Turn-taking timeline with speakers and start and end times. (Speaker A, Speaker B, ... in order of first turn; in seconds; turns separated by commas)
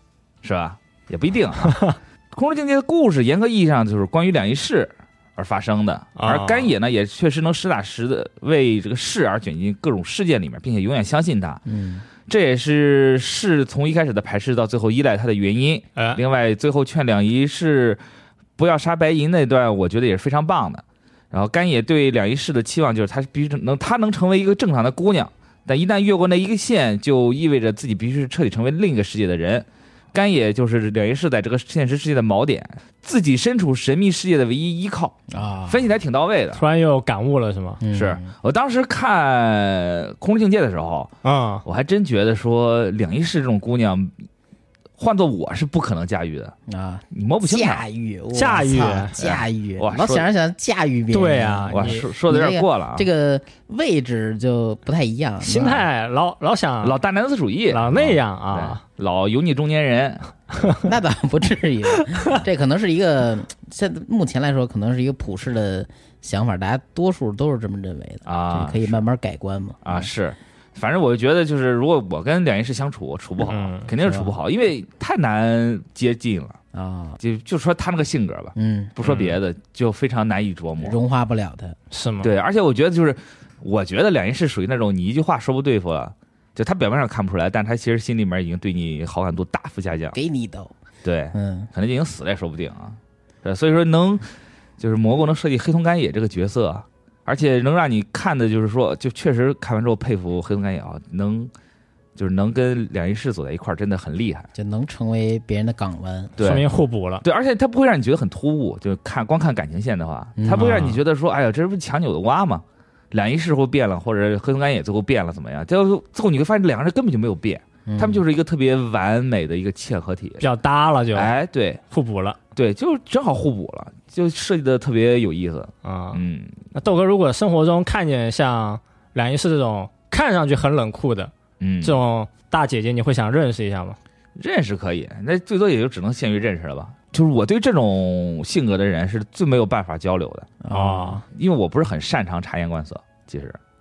Speaker A: 0.4-11.6, Speaker B: 6.2-6.7, Speaker C: 11.7-12.1, Speaker A: 12.3-18.0, Speaker A: 18.6-36.6, Speaker C: 35.3-35.9, Speaker B: 36.5-37.8, Speaker C: 37.8-38.3, Speaker A: 37.9-41.1, Speaker B: 41.2-41.6, Speaker A: 41.6-44.1, Speaker A: 45.0-46.5, Speaker C: 46.7-55.9, Speaker A: 47.1-47.8, Speaker B: 48.3-49.1, Speaker A: 49.2-50.3, Speaker B: 51.1-52.0, Speaker A: 51.7-53.1, Speaker B: 55.4-57.0, Speaker A: 56.8-60.7, Speaker B: 57.7-58.8, Speaker C: 60.8-70.1, Speaker B: 62.0-62.4, Speaker A: 68.3-69.0, Speaker A: 69.8-76.6, Speaker B: 73.4-73.9, Speaker C: 74.0-74.3, Speaker C: 76.7-77.2, Speaker A: 77.2-81.0, Speaker C: 78.6-79.0, Speaker B: 79.0-79.3, Speaker C: 80.8-81.8, Speaker B: 81.9-82.3, Speaker A: 82.2-90.2, Speaker C: 90.1-90.7, Speaker A: 91.0-94.3, Speaker C: 91.3-91.7, Speaker A: 94.8-101.5, Speaker A: 102.2-104.5, Speaker C: 104.5-106.3, Speaker A: 106.4-106.7, Speaker B: 106.4-107.2, Speaker A: 107.2-120.4, Speaker C: 110.4-111.0, Speaker B: 110.5-111.0, Speaker C: 117.9-118.2, Speaker B: 120.4-121.3, Speaker A: 121.1-121.8, Speaker B: 121.9-122.4, Speaker A: 122.5-126.6, Speaker B: 125.8-126.2, Speaker B: 126.7-134.0, Speaker A: 131.6-132.0, Speaker A: 134.4-140.6, Speaker C: 140.6-141.2, Speaker B: 140.7-141.2, Speaker A: 141.3-143.6